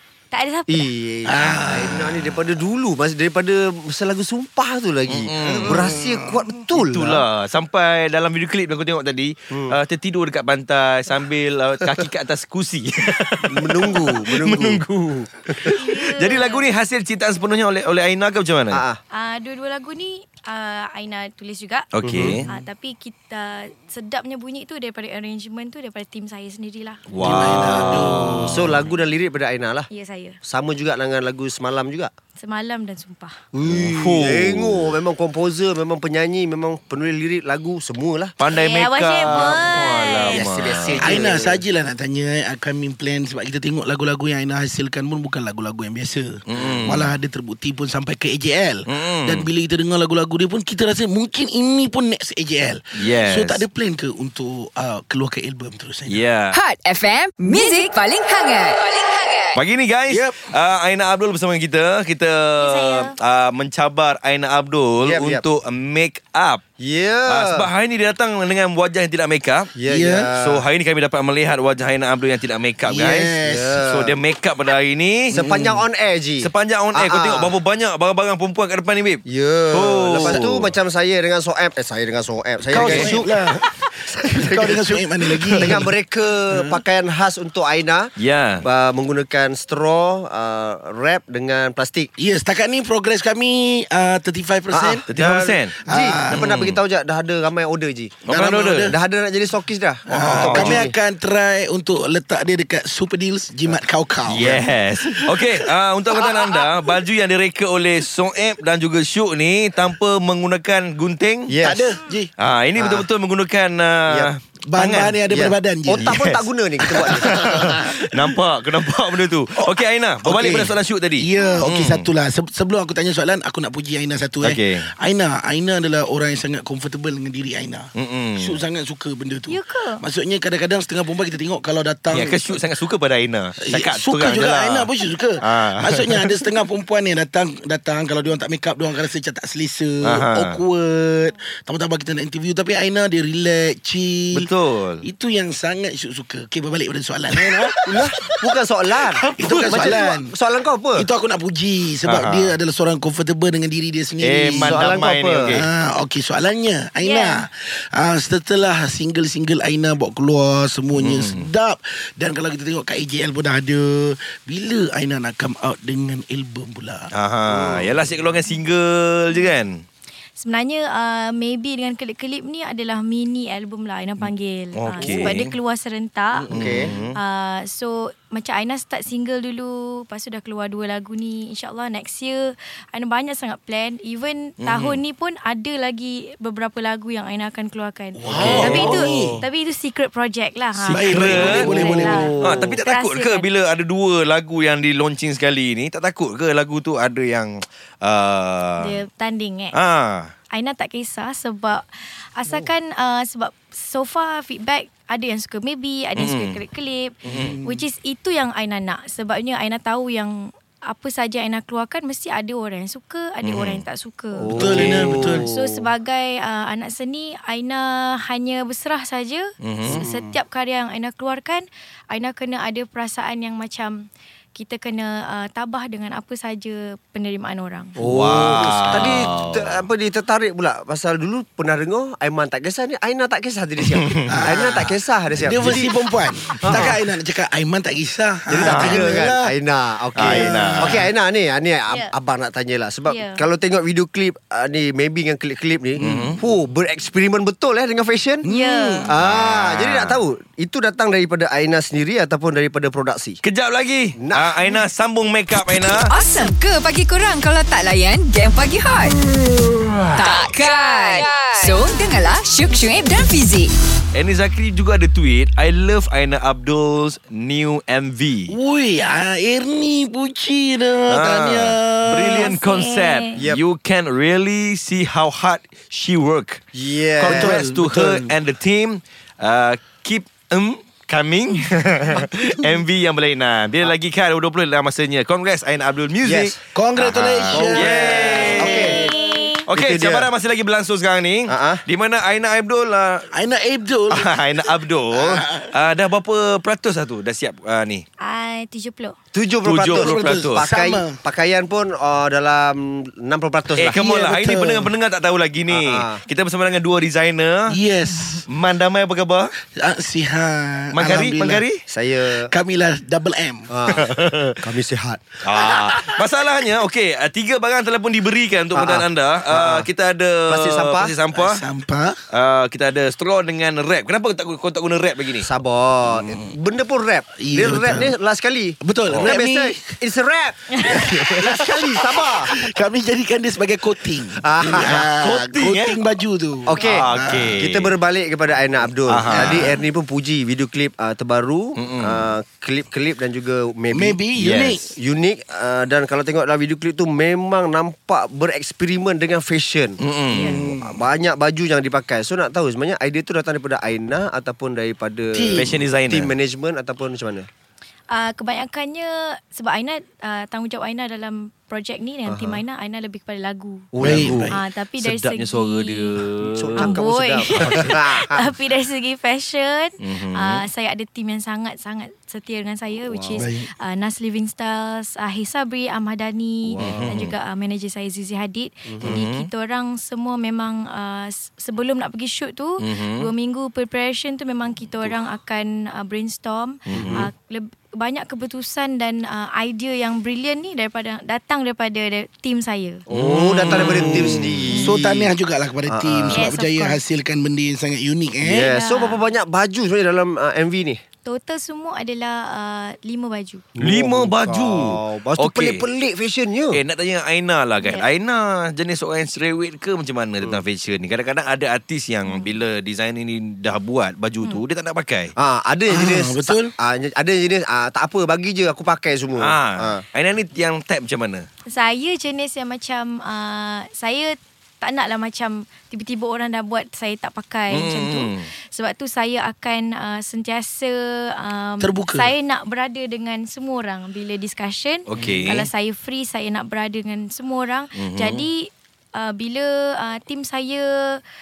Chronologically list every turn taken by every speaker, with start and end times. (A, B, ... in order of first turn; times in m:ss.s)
0:00.3-0:00.9 A
0:00.7-0:07.2 B
0:01.3-0:02.4 C
0:05.1-0:05.9 D
0:05.7-0:06.4 C
0:06.7-0:14.8 D
0:09.5-0:09.8 B
0:13.5-0:15.8 B
0:15.6-0:18.8 D
0:15.7-0:16.7 A
0:18.7-0:19.0 B
0:19.1-0:21.9 A
0:21.9-0:22.5 D
0:22.0-0:22.4 B
0:22.5-0:27.0 A
0:27.1-0:28.8 D
0:27.2-0:28.7 C
0:27.8-0:29.9 B
0:29.9-0:30.4 A
0:30.5-0:32.1 B
0:32.4-0:33.4 A
0:33.5-0:38.4 B
0:33.7-0:35.0 D
0:38.4-0:41.2 D
0:38.5-0:40.6 A
0:39.2-0:41.6 B
0:40.9-0:56.2 C
0:46.5-0:47.1 D
0:48.9-0:49.5 D
0:53.0-0:53.6 D
0:56.1-0:56.6 D
0:56.5-0:59.6 E
0:59.6-1:06.6 D
1:00.1-1:00.5 C
1:02.6-1:03.2 A
1:05.0-1:05.4 B
1:06.8-1:07.7 B
1:07.3-1:09.7 D
1:09.8-1:10.6 B
1:09.9-1:10.3 C
1:10.4-1:13.4 D
1:12.9-1:13.8 C
1:13.4-1:14.2 B
1:13.9-1:15.4 D
1:15.3-1:17.6 B
1:15.3-1:15.8 C
1:16.4-1:20.7 D
1:19.3-1:28.1 B
1:22.7-1:23.7 C
1:22.7-1:23.1 D
1:24.2-1:25.9 C
1:26.5-1:26.8 C
1:28.2-1:28.6 D
1:28.6-1:32.1 B
1:32.2-1:35.1 C
1:34.7-1:41.0 B
1:35.1-1:35.8 D
1:35.8-1:36.5 C
1:36.3-1:36.8 D
1:38.3-1:39.0 D
1:38.3-1:39.0 C
1:40.1-1:45.6 C
1:40.2-1:40.9 D
1:44.3-1:51.6 D
1:46.3-1:46.6 B
1:51.5-1:51.9 B
1:51.6-1:52.3 C
1:52.4-1:55.2 D
1:52.8-1:53.1 B
1:54.7-1:56.3 C
1:55.3-1:57.6 B
1:56.0-2:02.1 D
1:57.0-1:58.4 C
1:59.6-2:12.6 C
2:00.4-2:00.7 B
2:04.4-2:04.9 D
2:08.0-2:08.6 D
2:09.5-2:10.0 A
2:12.1-2:16.6 D
2:13.6-2:24.5 C
2:20.0-2:20.6 D
2:24.3-2:25.0 D
2:25.0-2:28.4 C
2:27.9-2:31.1 B
2:29.2-2:30.3 C
2:29.6-2:29.9 D
2:30.9-2:47.1 C
2:32.1-2:32.6 D
2:34.2-2:35.6 D
2:34.7-2:35.6 B
2:37.0-2:37.4 A
2:41.0-2:41.5 D
2:47.1-2:49.8 D
2:50.4-2:56.5 A
2:54.2-2:55.5 D
2:56.3-2:57.0 C
2:56.5-2:56.9 B
2:56.5-2:57.2 D
2:57.2-3:13.5 A
3:04.6-3:05.0 D
3:08.2-3:09.4 C
3:08.3-3:09.3 D
3:08.4-3:09.4 B
3:10.8-3:19.0 D
3:10.9-3:12.4 C
3:11.3-3:12.8 B
3:18.8-3:19.8 A
3:19.7-3:20.3 D
3:20.5-3:48.0 A
3:26.2-3:26.6 D
3:27.2-3:27.8 C
3:27.3-3:27.6 D
3:33.4-3:33.8 D
3:34.4-3:35.9 B
3:34.6-3:35.5 C
3:39.6-3:40.0 D
3:39.8-3:40.4 B
3:48.0-3:57.0 B
3:48.0-3:49.8 D
3:54.3-3:59.5 C
3:58.5-4:08.5 B
3:58.6-3:59.2 D
4:00.2-4:01.1 C
4:00.2-4:01.1 D
4:03.1-4:03.4 A
4:06.0-4:06.3 C
4:06.0-4:06.4 D
4:08.4-4:09.1 C
4:08.4-4:09.1 A
4:09.1-4:13.4 B
4:09.2-4:10.2 D
4:13.4-4:16.1 D
4:14.2-4:14.6 B
4:16.0-4:19.2 E
4:20.2-4:23.7 E
4:24.1-4:28.6 D
4:28.5-4:32.6 C
4:31.1-4:36.7 D
4:32.3-4:33.4 A
4:36.7-4:37.6 B
4:37.2-4:49.0 D
4:37.2-4:38.3 C
4:46.2-4:46.6 B
4:46.7-4:49.2 C
4:47.5-4:49.0 B
4:48.4-4:49.6 A
4:49.7-4:53.3 D
4:49.7-4:50.3 B
4:51.5-4:51.8 B
4:53.3-4:54.3 C
4:54.1-4:58.0 D
4:55.1-4:55.7 C
4:58.2-4:59.1 A
4:59.3-5:04.0 B
4:59.6-5:00.6 D
4:59.9-5:01.2 C
5:03.8-5:07.7 D
5:03.8-5:04.9 C
5:05.7-5:06.2 B
5:07.7-5:08.4 C
5:08.5-5:09.5 D
5:09.8-5:11.7 C
5:10.9-5:11.8 D
5:11.9-5:12.5 B
5:12.5-5:13.7 C
5:13.7-5:15.3 B
5:13.9-5:14.6 D
5:15.4-5:21.6 D
5:18.8-5:19.9 B
5:20.5-5:21.2 B
5:21.4-5:22.2 C
5:22.3-5:25.5 D
5:25.4-5:32.6 B
5:27.4-5:28.1 C
5:28.8-5:29.8 C
5:29.1-5:29.4 D
5:30.8-5:37.6 C
5:34.4-5:35.1 B
5:34.9-5:36.0 D
5:36.7-5:57.5 B
5:36.8-5:37.9 D
5:39.1-5:39.8 D
5:41.8-5:42.3 D
5:43.9-5:44.9 C
5:44.4-5:44.8 D
5:50.0-5:50.5 D
5:50.3-5:51.0 C
5:55.3-5:55.8 C
5:55.5-5:56.3 D
5:58.1-6:03.9 A
6:02.3-6:02.6 B
6:03.9-6:04.6 B
6:04.0-6:04.6 C
6:04.0-6:04.3 D
6:04.4-6:06.2 A
6:05.0-6:07.0 D
6:06.6-6:08.5 B
6:06.8-6:33.0 A
6:10.0-6:10.6 D
6:13.1-6:13.5 B
6:13.4-6:13.7 C
6:16.7-6:17.2 B
6:16.8-6:17.3 D
6:18.9-6:19.2 B
6:19.0-6:19.5 D
6:22.8-6:23.3 D
6:26.9-6:27.3 D
6:26.9-6:27.3 B
6:33.1-6:35.3 B
6:33.1-6:34.7 D
6:33.7-6:38.7 C
6:34.7-6:35.0 A
6:35.9-6:36.5 B
6:36.3-6:37.0 A
6:38.4-6:41.0 B
6:38.7-6:39.2 A
6:41.2-6:43.6 A
6:43.8-6:46.8 B
6:43.8-6:45.9 D
6:46.7-6:55.3 D
6:52.2-6:52.6 A
6:55.4-7:00.0 B
6:55.9-6:56.7 C
6:59.4-7:01.5 D
7:01.7-7:21.2 A
7:07.7-7:08.5 D
7:11.8-7:12.3 C
7:15.1-7:15.7 D
7:18.0-7:18.5 D